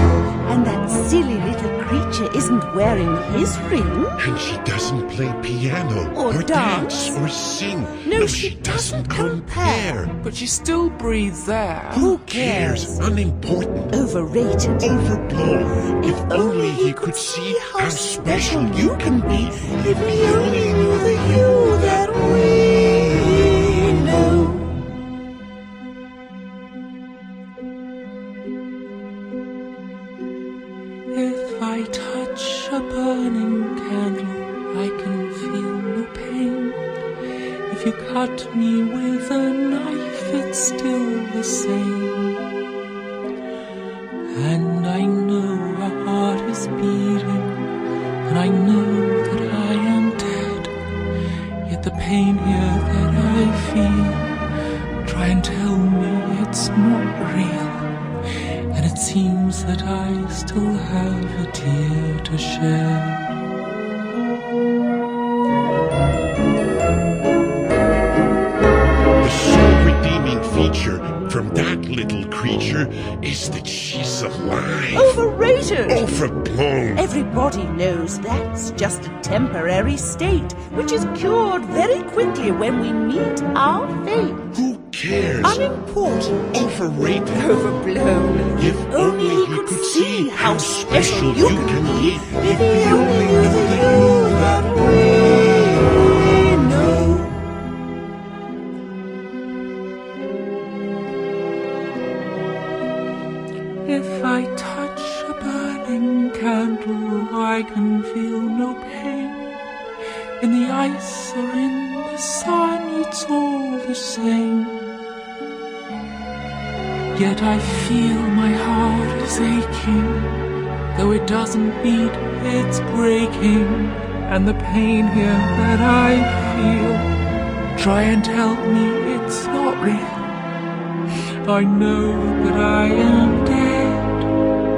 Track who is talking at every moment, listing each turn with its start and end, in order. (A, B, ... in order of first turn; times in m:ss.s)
0:00.4-0:04.2 A
0:04.2-0:10.1 B
0:06.1-0:07.2 A
0:08.0-0:10.0 A
0:10.2-0:12.0 C
0:11.9-0:13.0 A
0:12.0-0:14.0 B
0:13.9-0:15.0 A
0:14.8-0:22.1 B
0:16.0-0:24.8 A
0:31.1-0:36.8 C
0:37.7-0:42.5 C
0:44.3-0:47.7 C
0:48.2-0:50.7 C
0:51.6-0:54.4 C
0:55.0-1:03.4 C
1:09.2-1:15.2 B
1:14.9-1:16.1 A
1:15.9-1:17.0 B
1:16.9-1:24.5 A
1:24.5-1:25.6 B
1:25.4-1:26.5 A
1:26.5-1:27.5 B
1:27.3-1:37.5 A
1:28.5-1:34.7 B
1:43.8-1:49.6 C
1:50.4-1:54.9 C
1:57.1-2:07.1 C
2:07.7-2:10.4 C
2:11.4-2:14.3 C